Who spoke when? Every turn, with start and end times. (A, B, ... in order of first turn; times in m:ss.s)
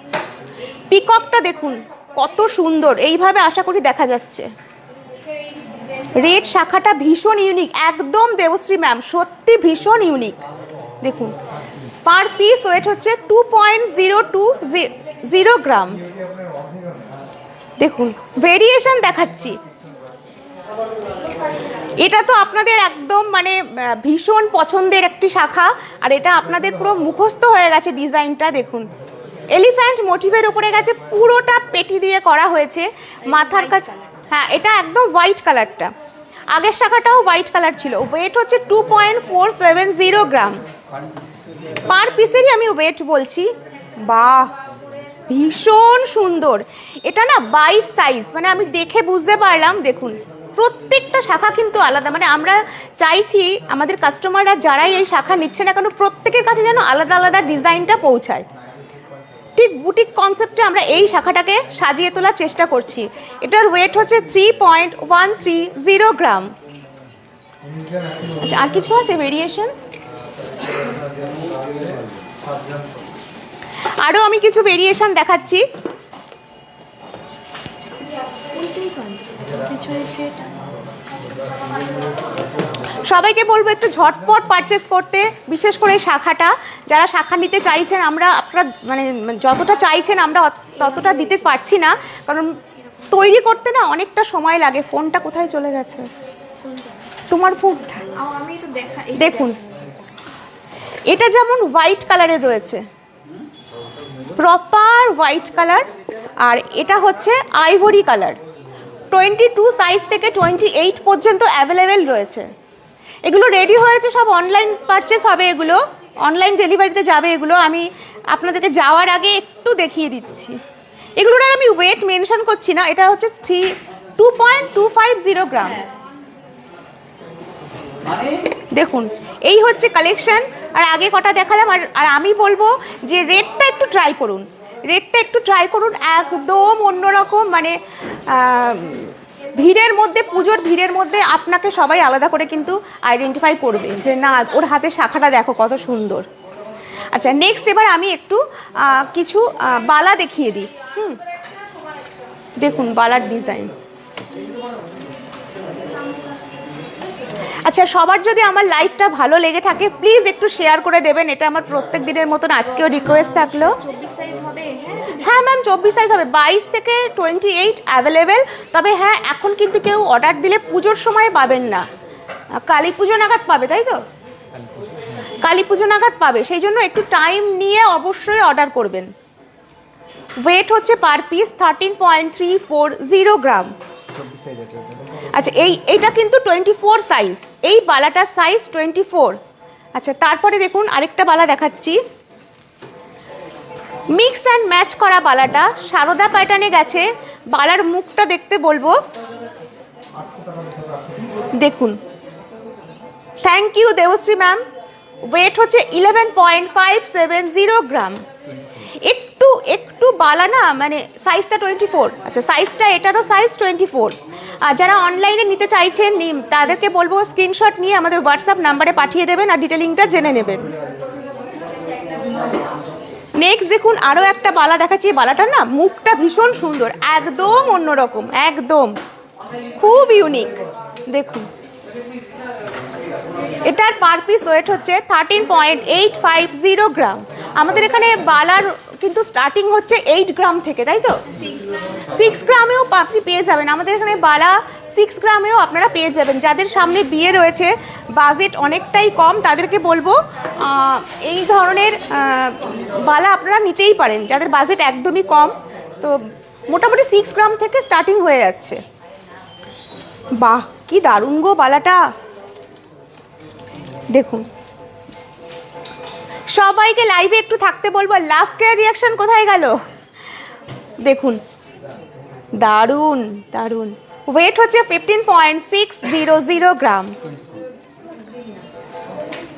0:00.9-0:04.5 A
0:05.3-0:06.3 B
0:06.1-0:10.4 A
0:11.0-0:11.3 A
0:12.0-0:16.0 A
0:17.8-0:19.6 A
0:22.0-0:28.9 A
0:29.5-0:35.9 A
0:33.2-0:34.2 B
0:36.5-0:40.6 A
0:41.9-0:43.5 A
0:44.0-0:44.5 A
0:45.3-0:58.4 A
0:59.6-1:06.5 A
1:08.4-1:09.7 A
1:14.0-1:15.6 A
1:18.3-1:20.6 B
1:23.0-1:32.6 A
1:32.9-1:33.2 B
1:33.1-1:36.1 A
1:36.6-1:37.1 B
1:37.3-1:38.0 A
1:38.1-1:40.0 B
1:39.2-1:39.6 A
1:41.1-1:42.8 A
1:44.4-1:45.9 A
1:46.4-1:48.4 A
1:49.1-1:52.5 A
1:53.2-2:00.6 A
2:01.2-2:05.8 A
2:08.7-2:26.3 A
2:27.1-2:31.2 A
2:32.6-2:33.7 A
2:37.6-2:43.8 A
2:43.0-2:45.5 B
2:45.2-2:51.8 A
2:52.5-2:54.0 A
2:55.4-2:59.1 A
3:00.4-3:03.7 A
3:05.3-3:09.4 A
3:09.9-3:12.0 A
3:14.1-3:19.0 A
3:21.6-3:22.0 A
3:23.4-3:24.6 A
3:25.2-3:28.2 A
3:29.0-3:40.7 A
3:41.9-3:42.6 B
3:43.4-3:49.0 A
3:49.8-3:51.5 A
3:53.6-4:01.2 A
4:01.3-4:01.7 B
4:02.1-4:18.8 A
4:20.4-4:22.1 A
4:24.1-4:24.4 A
4:26.5-4:29.8 A
4:31.0-4:31.4 A
4:32.6-4:37.2 A